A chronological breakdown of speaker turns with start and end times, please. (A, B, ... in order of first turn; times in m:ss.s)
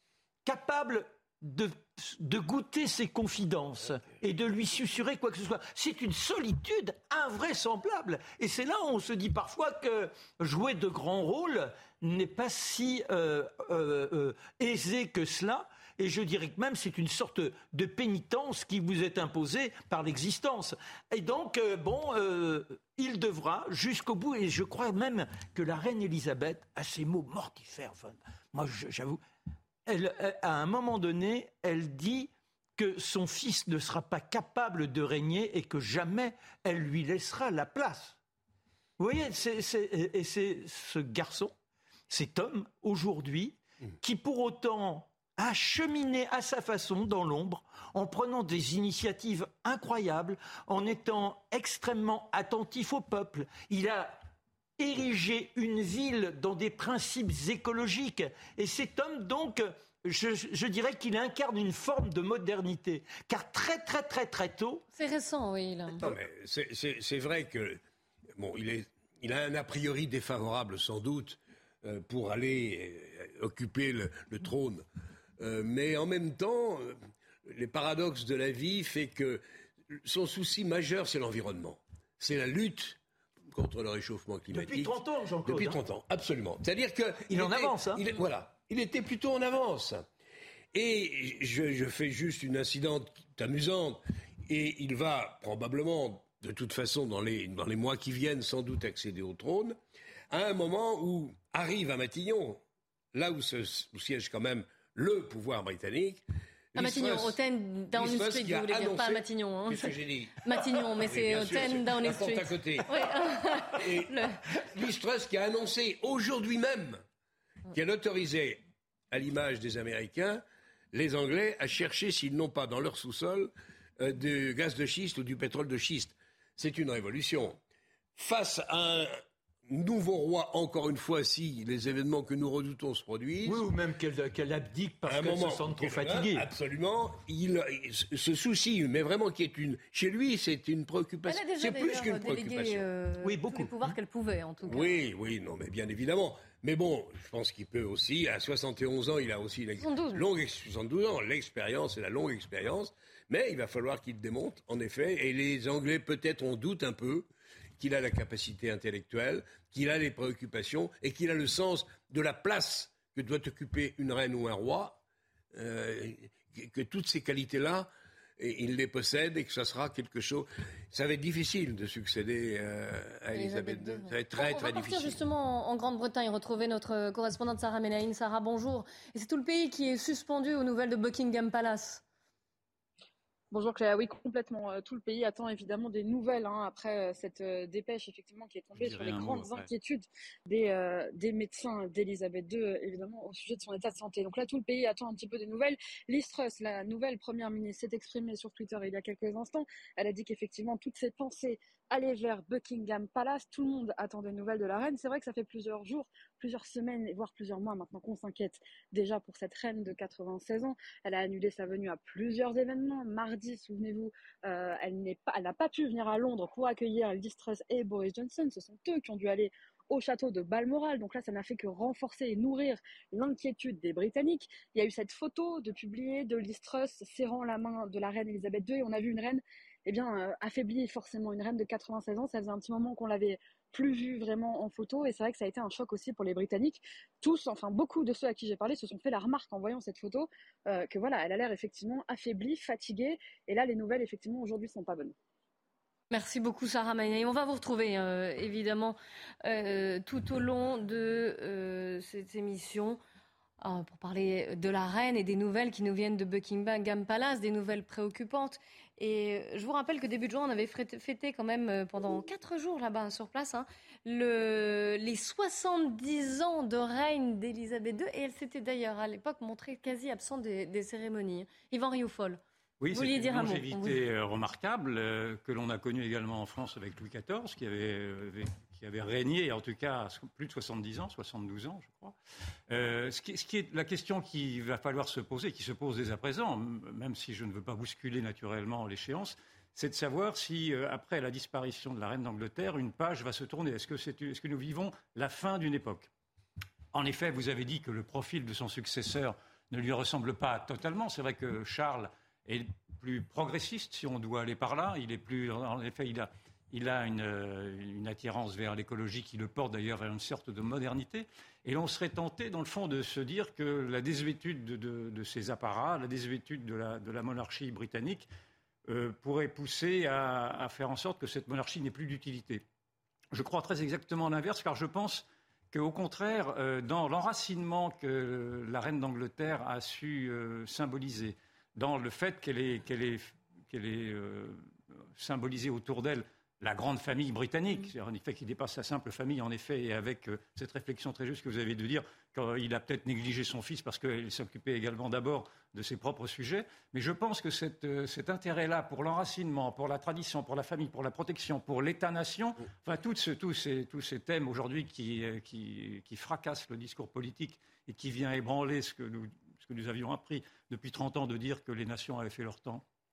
0:00.4-0:29.2 A
0:29.8-0:38.2 A
0:39.0-0:41.5 A
0:42.1-0:54.2 A
0:54.8-1:04.8 A
1:04.9-1:06.1 B
1:06.0-1:07.8 C
1:08.4-1:14.8 C
1:15.4-1:23.0 C
1:23.5-1:30.0 C
1:24.5-1:25.8 A
1:27.3-1:28.0 A
1:30.7-1:39.8 C
1:40.3-1:42.6 C
1:43.1-1:46.2 C
1:46.7-1:47.4 C
1:46.8-1:54.4 B
1:47.9-1:57.0 C
1:57.7-2:07.6 C
2:08.2-2:09.2 C
2:09.7-2:13.6 C
2:13.4-2:16.4 A
2:15.1-2:22.8 C
2:21.2-2:24.9 B
2:23.2-2:23.9 A
2:24.7-2:37.2 C
2:29.8-2:30.2 B
2:37.8-2:45.0 C
2:45.5-2:55.2 C
2:53.3-3:02.0 B
3:03.5-4:05.1 D
3:08.7-3:09.7 E
3:09.2-3:09.4 C
4:06.1-4:13.0 B
4:13.6-4:32.4 B
4:32.8-4:42.1 E
4:32.9-4:34.0 B
4:42.7-4:56.1 E
4:56.9-5:18.3 E
5:18.8-5:22.6 E
5:23.3-6:02.8 E